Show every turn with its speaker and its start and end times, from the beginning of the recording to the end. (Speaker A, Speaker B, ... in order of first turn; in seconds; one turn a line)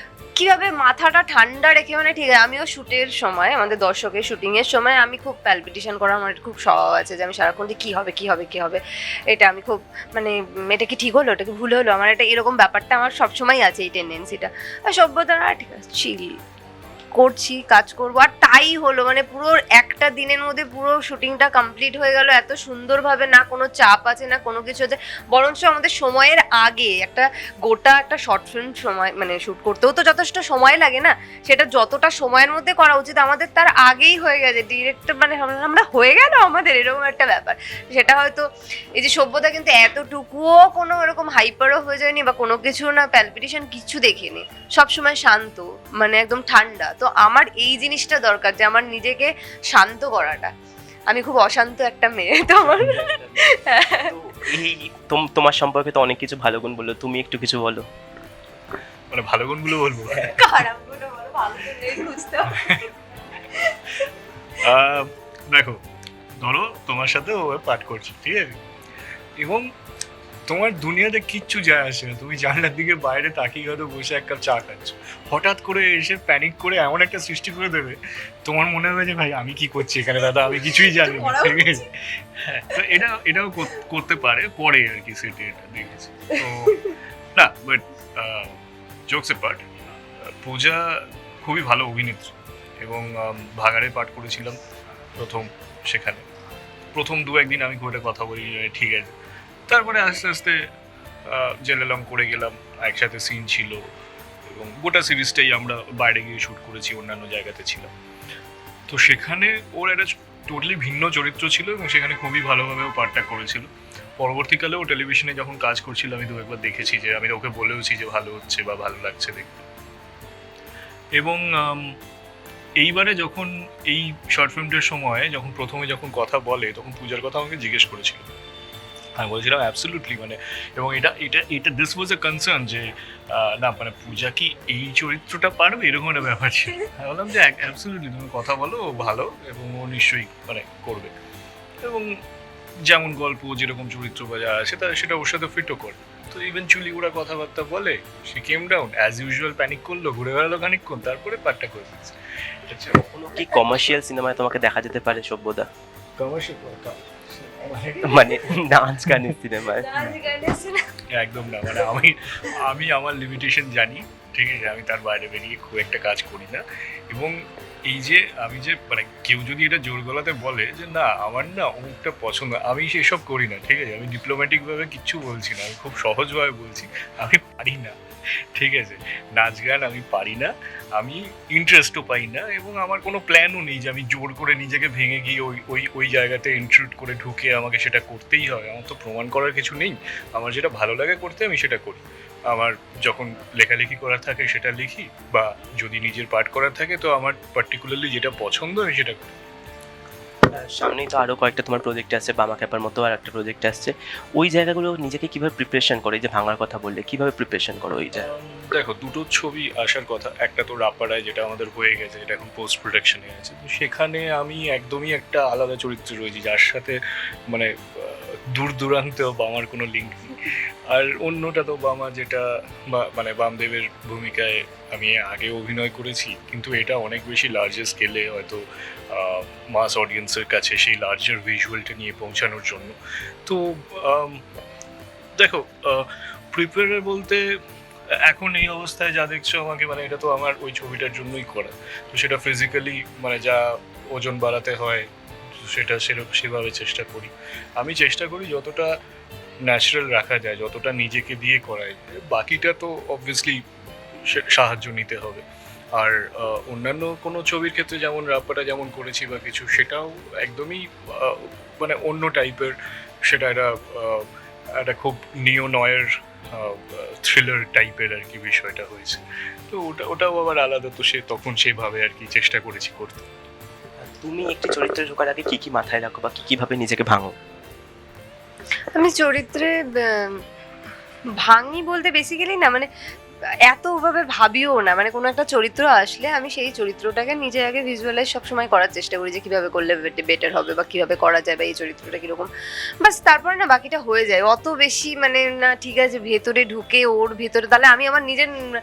Speaker A: 0.4-16.4
Speaker A: 17.1-38.5
Speaker A: 39.0-50.5
Speaker A: 51.1-54.1
Speaker B: 52.6-57.9
Speaker C: 59.1-60.4
Speaker A: 60.2-62.9
Speaker C: 62.5-62.9
Speaker A: 63.5-64.1
Speaker C: 64.6-65.8
Speaker C: 66.4-68.6
Speaker C: 69.4-69.7
Speaker C: 70.5-88.6
Speaker A: 80.6-81.9
Speaker C: 89.1-89.6
Speaker C: 90.4-94.6
Speaker C: 95.2-96.3
Speaker C: 96.9-99.1
Speaker C: 99.7-100.6
Speaker C: 101.3-103.9
Speaker C: 104.5-107.9
Speaker C: 108.9-119.7
Speaker C: 121.2-122.0
Speaker C: 122.8-128.3
Speaker C: 129.2-141.1
Speaker C: 141.8-142.2
Speaker C: 142.9-153.1
Speaker B: 153.0-155.7
Speaker C: 156.2-159.4
Speaker B: 158.0-159.9
Speaker A: 159.7-160.9
Speaker C: 161.1-178.0
Speaker C: 178.6-199.3
Speaker B: 200.5-208.3
Speaker C: 208.1-234.4
Speaker C: 235.4-237.6
Speaker C: 238.1-248.9
Speaker C: 249.7-253.6
Speaker C: 254.2-255.4
Speaker C: 256.0-273.3
Speaker B: 274.0-277.4
Speaker A: 278.9-280.4
Speaker A: 281.4-282.9
Speaker A: 283.7-292.5
Speaker A: 293.0-298.5